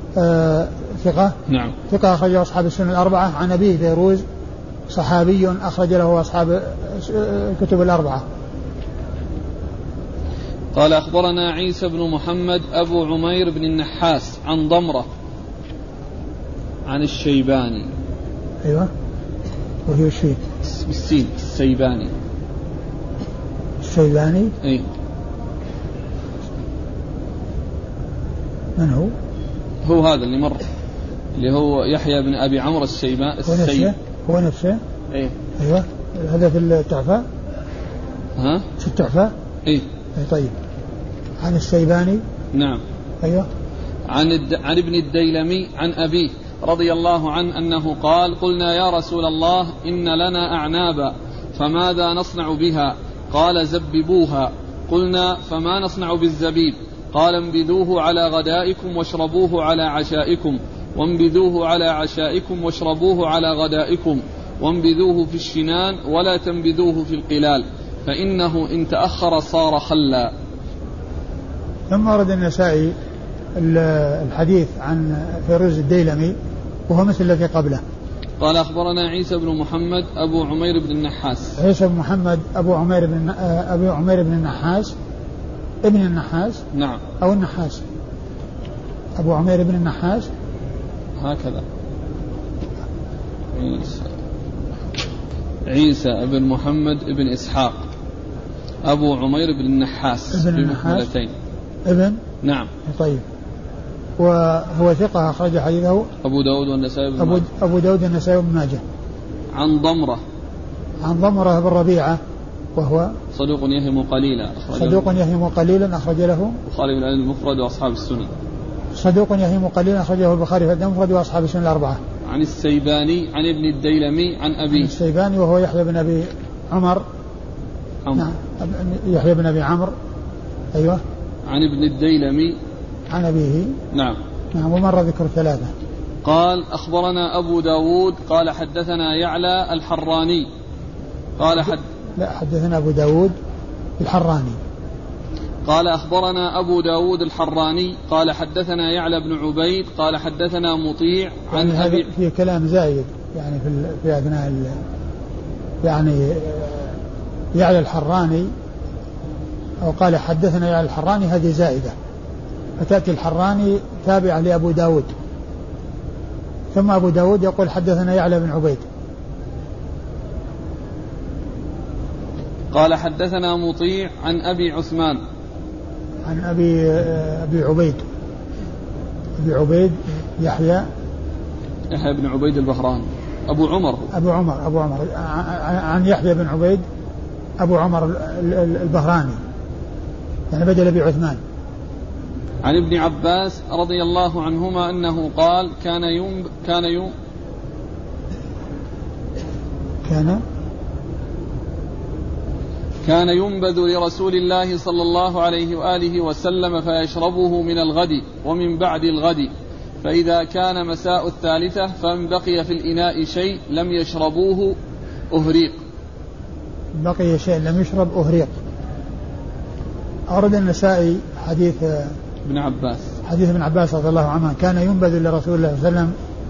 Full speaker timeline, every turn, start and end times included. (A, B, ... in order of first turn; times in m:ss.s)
0:00.2-0:01.4 A
0:01.5-0:01.8 B
0:01.9-0:04.2 A
0:04.9-0:08.2 A
0:10.8-0:15.1 B
0:16.9-0:17.9 B
0:18.6-0:18.9 A
0:19.9-0:20.4 A
0:20.6-0:22.1 B
0:23.8-0:24.6 A
0:24.6-0:24.9 B
0:28.8-0:29.1 A
0:29.8-0:30.6 B
0:31.4-0:33.9 B
0:33.4-0:34.8 A
0:35.6-0:37.2 A
0:38.4-0:38.7 B
0:38.8-0:39.3 A
0:40.2-0:40.6 A
0:41.4-0:42.2 A
0:42.5-0:42.8 B
0:43.2-0:43.5 A
0:44.1-1:10.3 B
1:11.9-1:12.9 A
1:13.6-1:16.4 A
1:16.9-1:17.8 A
1:18.4-1:21.6 B
1:21.6-1:25.0 A
1:25.8-1:26.6 A
1:26.7-1:27.0 B
1:27.2-1:27.8 A
1:29.2-1:30.3 A
1:31.2-1:31.6 B
1:33.6-1:34.1 B
1:35.7-1:37.8 B
1:38.8-1:41.3 B
1:40.3-1:41.1 A
1:41.8-1:42.2 A
1:42.4-1:42.7 B
1:42.8-1:43.2 A
1:44.2-1:46.1 A
1:46.2-1:47.5 B
1:47.2-1:48.8 A
1:49.5-1:50.2 B
1:51.0-1:52.2 A
1:52.8-1:53.1 A
1:53.3-1:55.1 B
1:54.7-1:56.6 A
1:56.7-1:58.3 B
1:59.0-2:02.0 A
2:02.3-2:04.9 B
2:04.7-2:07.0 A
2:08.2-2:09.9 A
2:10.7-2:11.0 A
2:11.5-2:12.6 B
2:13.1-2:13.8 A
2:13.9-2:14.2 B
2:14.5-2:15.7 A
2:16.2-2:20.5 B
2:21.4-2:21.8 B
2:21.6-2:23.4 A
2:24.0-2:24.6 A
2:25.7-2:32.1 B
2:31.5-2:34.8 A
2:35.8-2:37.0 A
2:37.5-2:38.5 A
2:39.8-2:42.0 A
2:42.8-2:45.1 A
2:46.7-2:48.8 A
2:52.7-2:55.2 B
2:56.2-2:58.0 A
2:59.4-3:00.9 A
3:01.9-3:04.1 B
3:04.1-3:06.8 A
3:07.6-3:09.4 A
3:10.5-3:11.4 A
3:12.6-3:17.1 B
3:20.0-3:20.4 A
3:23.0-3:29.5 B
3:30.0-3:34.8 B
3:35.3-3:35.8 B
3:37.0-3:38.6 A
3:40.3-3:42.2 A
3:42.5-3:43.1 B
3:43.2-3:46.1 A